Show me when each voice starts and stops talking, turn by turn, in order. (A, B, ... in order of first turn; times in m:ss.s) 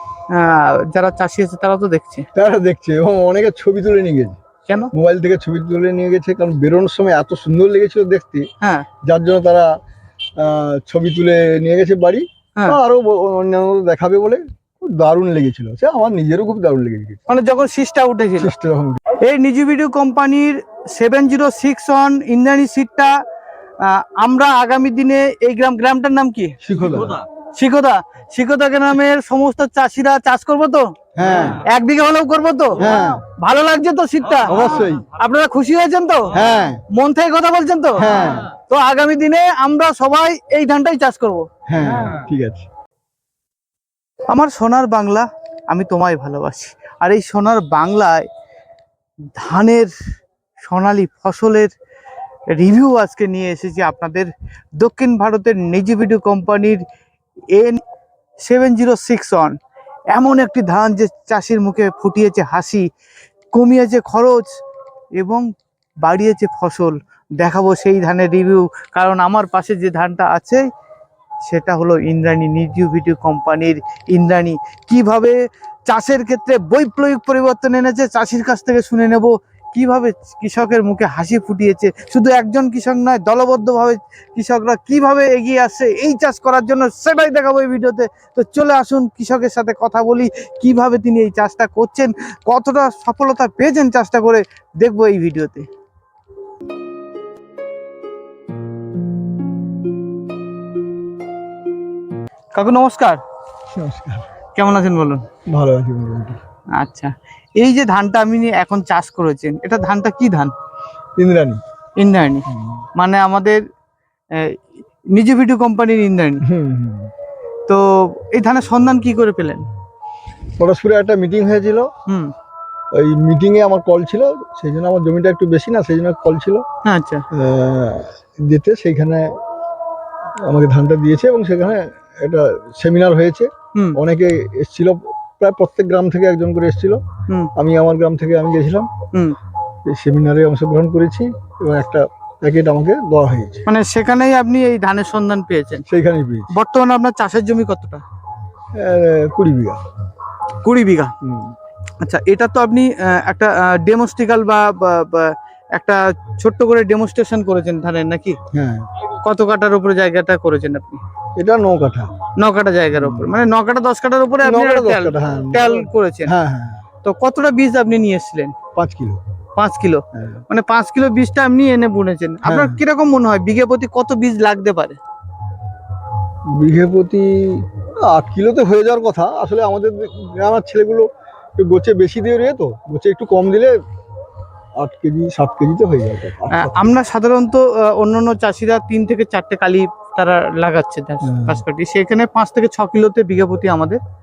0:00.3-0:02.3 A
0:02.3-0:04.4 B
0:04.7-0:04.9 A
0:04.9-0:08.5 B
0:08.6-0:08.8 A
0:09.0-0:09.7 B
0:10.4-0:17.2 B
0:17.3-0:18.5 A
0:18.4-0:19.0 B
0:19.2-0:23.1 A
0:23.8-0:26.5 A
0:26.6-0:27.2 B
0:27.6-0:30.9 A
0:31.2-0:31.6 B
0:31.5-0:36.4 A
0:32.8-0:33.2 B
0:34.4-0:35.1 B
0:36.3-0:36.8 B
0:36.9-0:41.5 A
0:38.0-0:38.5 B
0:41.7-0:42.7 B
0:44.3-0:48.3 A
0:49.4-0:49.9 A
0:50.6-0:51.7 A
0:52.5-0:56.8 A
0:57.5-0:57.8 A
0:58.4-0:59.6 A
1:00.1-1:02.9 A
1:03.5-1:04.6 A
1:05.2-1:05.4 A
1:06.0-1:10.6 A
1:11.4-1:35.7 A
1:42.5-1:43.2 A
1:43.7-1:44.3 B
1:44.6-1:45.2 A
1:45.5-1:46.4 B
1:46.8-1:50.5 A
1:51.2-1:51.6 B
1:52.0-1:53.6 A
1:52.5-1:52.8 B
1:54.3-1:54.6 A
1:55.1-1:56.4 A
1:56.4-1:57.1 B
1:57.7-1:59.6 A
2:00.6-2:01.9 B
2:02.1-2:02.3 A
2:02.9-2:06.6 B
2:06.8-2:07.2 A
2:07.3-2:09.3 B
2:10.4-2:17.0 B
2:17.6-2:18.9 B
2:19.8-2:23.6 B
2:23.7-2:25.8 A
2:25.9-2:26.5 B
2:26.5-2:28.0 A
2:28.7-2:29.8 B
2:30.6-2:31.1 A
2:31.2-2:31.5 B
2:32.0-2:38.4 A
2:38.5-2:38.9 B
2:39.2-2:41.0 A
2:41.4-2:42.1 B
2:42.4-2:46.3 A
2:42.9-2:43.4 B
2:44.4-2:46.8 B
2:47.0-2:48.6 A
2:48.7-2:49.2 B
2:49.6-2:55.0 A
2:50.1-2:50.4 B
2:52.4-2:52.8 B
2:56.5-3:03.8 B
3:04.8-3:06.9 B
3:06.5-3:14.0 A
3:11.2-3:11.6 B